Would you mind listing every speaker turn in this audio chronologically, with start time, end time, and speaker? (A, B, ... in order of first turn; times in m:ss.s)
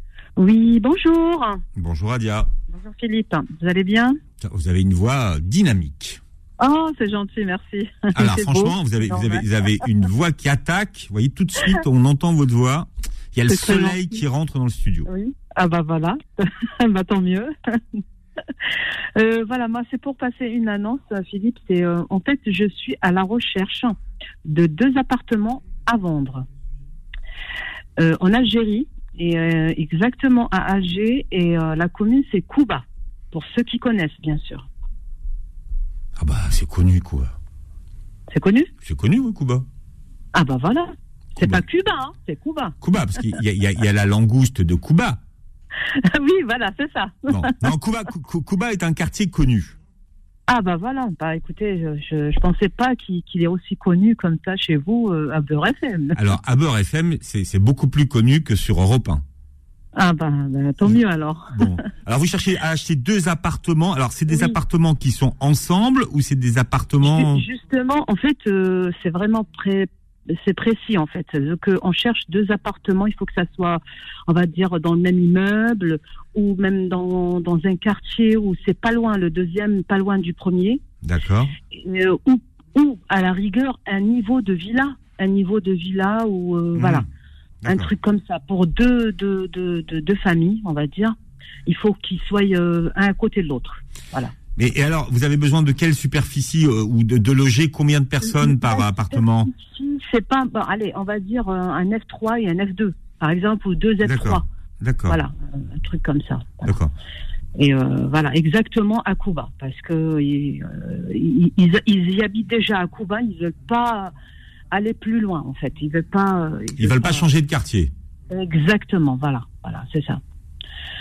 0:00.4-0:01.6 A
0:01.8-0:02.5 B
0:02.7-0:04.2 A
0:04.4-0:06.2 B
0:06.6-0:09.5 A
0:08.1-0:15.1 B
0:13.5-0:14.2 A
0:15.1-0:18.0 A
0:18.6-0:26.5 A
0:28.0-0:34.7 A
0:36.2-0:37.3 B
0:38.3-0:38.7 A
0:38.8-0:39.7 B
0:40.3-0:42.8 A
0:41.4-0:41.6 B
0:42.8-0:45.2 B
0:46.0-0:47.7 A
0:47.3-0:49.8 B
0:50.5-0:56.2 A
0:56.2-0:59.2 B
1:00.0-1:01.7 A
1:01.5-1:07.5 B
1:04.3-1:04.6 A
1:07.0-1:20.8 A
1:21.0-1:21.5 B
1:21.7-1:27.1 A
1:26.8-1:27.1 B
1:27.6-1:27.9 B
1:27.7-1:34.3 A
1:34.6-1:39.5 B
1:38.2-1:44.5 A
1:44.0-1:45.2 B
1:45.1-1:46.7 A
1:46.6-1:46.9 B
1:47.6-1:54.1 A
1:54.7-1:57.2 A
1:56.8-1:57.9 B
1:58.3-2:00.2 A